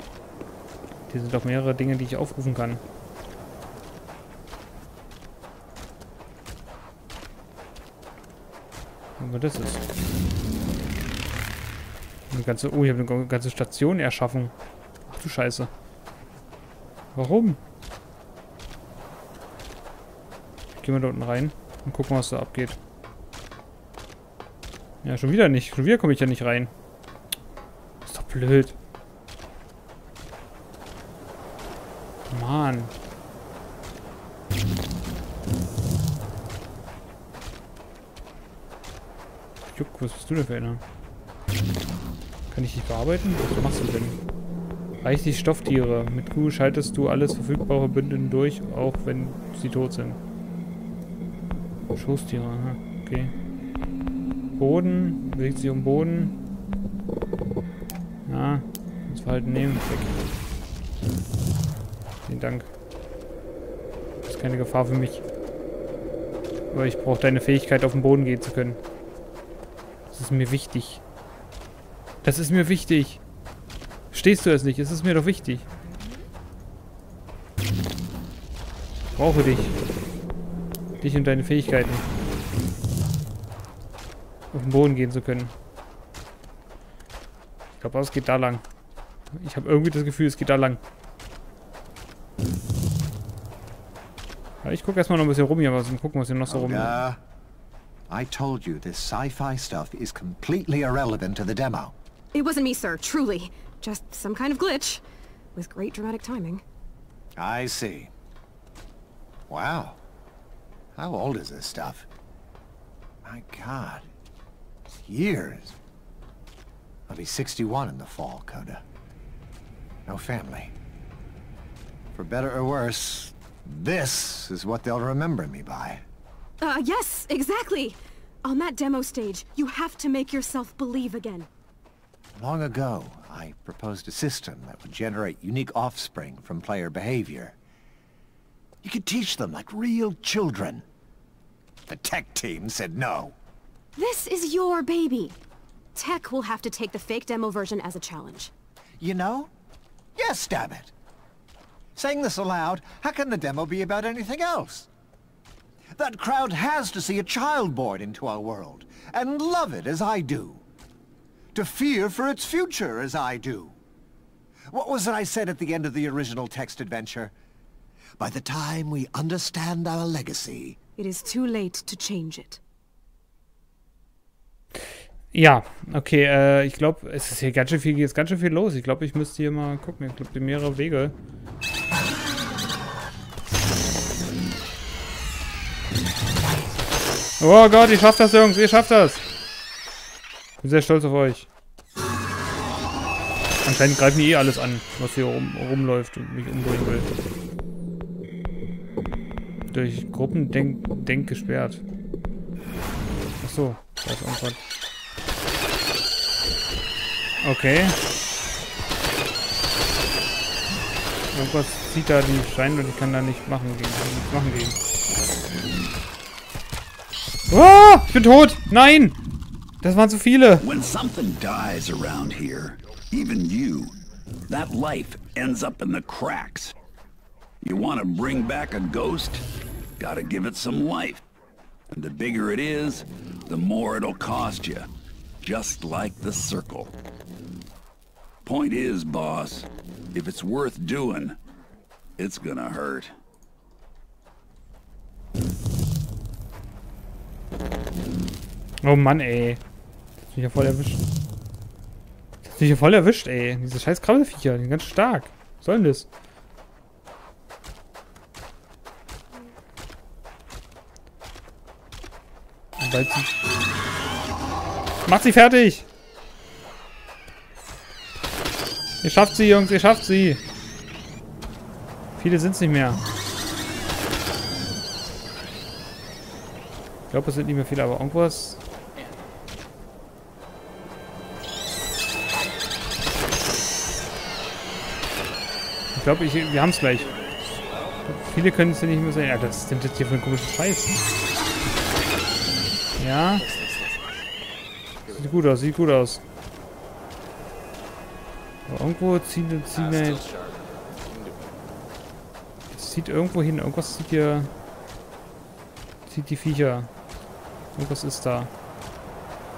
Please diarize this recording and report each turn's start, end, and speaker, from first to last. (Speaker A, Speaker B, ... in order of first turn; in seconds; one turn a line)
Speaker A: 1.1-2.8
Speaker A: 9.2-9.8
Speaker A: 12.3-14.5
Speaker A: 15.1-15.7
Speaker A: 17.1-17.6
Speaker A: 20.8-22.8
Speaker A: 25.0-26.7
Speaker A: 28.1-28.8
Speaker A: 32.3-32.9
Speaker A: 39.7-40.8
Speaker A: 42.5-44.2
Speaker A: 45.0-50.2
Speaker A: 52.0-53.3
Speaker A: 54.6-56.3
Speaker A: 58.3-60.2
Speaker A: 62.3-62.7
Speaker A: 64.2-65.2
Speaker A: 66.7-68.8
Speaker A: 70.1-71.0
Speaker A: 72.2-73.2
Speaker A: 74.1-75.7
Speaker A: 79.2-79.8
Speaker A: 81.0-82.1
Speaker A: 84.5-85.5
Speaker A: 87.8-88.6
Speaker A: 89.3-90.8
Speaker A: 94.6-97.0
Speaker B: 96.5-97.2
Speaker B: 98.1-101.9
Speaker C: 102.3-105.0
Speaker C: 105.6-106.6
Speaker B: 107.4-108.1
Speaker B: 109.5-110.0
Speaker B: 111.0-112.1
Speaker B: 113.2-114.1
Speaker B: 114.9-115.8
Speaker B: 117.1-118.8
Speaker B: 120.1-120.8
Speaker B: 122.1-126.0
Speaker C: 126.6-131.5
Speaker B: 132.4-137.6
Speaker B: 138.8-140.8
Speaker B: 141.9-143.3
Speaker C: 144.0-145.4
Speaker C: 145.9-148.5
Speaker B: 149.0-149.5
Speaker B: 150.2-150.9
Speaker B: 152.0-154.9
Speaker B: 156.0-160.6
Speaker B: 161.5-163.8
Speaker B: 164.7-167.3
Speaker B: 168.2-170.8
Speaker C: 171.0-172.6
Speaker A: 175.3-181.1
Speaker A: 187.4-189.2
Speaker A: 190.6-191.5
Speaker A: 193.6-197.1
Speaker A: 199.7-201.8
Speaker A: 203.4-204.6
Speaker A: 207.4-208.0
Speaker A: 211.3-214.8
Speaker A: 217.5-219.2
Speaker A: 219.8-220.7
Speaker D: 220.6-224.0
Speaker D: 224.5-226.8
Speaker D: 227.6-229.4
Speaker D: 230.0-231.2
Speaker D: 231.9-234.9
Speaker D: 235.4-236.9
Speaker D: 238.4-241.4
Speaker D: 242.2-243.2
Speaker A: 248.8-249.6
Speaker A: 250.3-251.0
Speaker A: 252.4-256.1
Speaker A: 262.8-263.3
Speaker A: 265.1-265.9
Speaker A: 269.0-270.4
Speaker A: 272.2-273.0
Speaker A: 277.1-278.6
Speaker A: 285.9-287.2
Speaker A: 288.1-291.0
Speaker A: 293.0-293.6
Speaker A: 295.1-296.2
Speaker A: 298.7-300.3
Speaker A: 302.7-304.5
Speaker A: 306.1-306.9
Speaker A: 307.8-308.5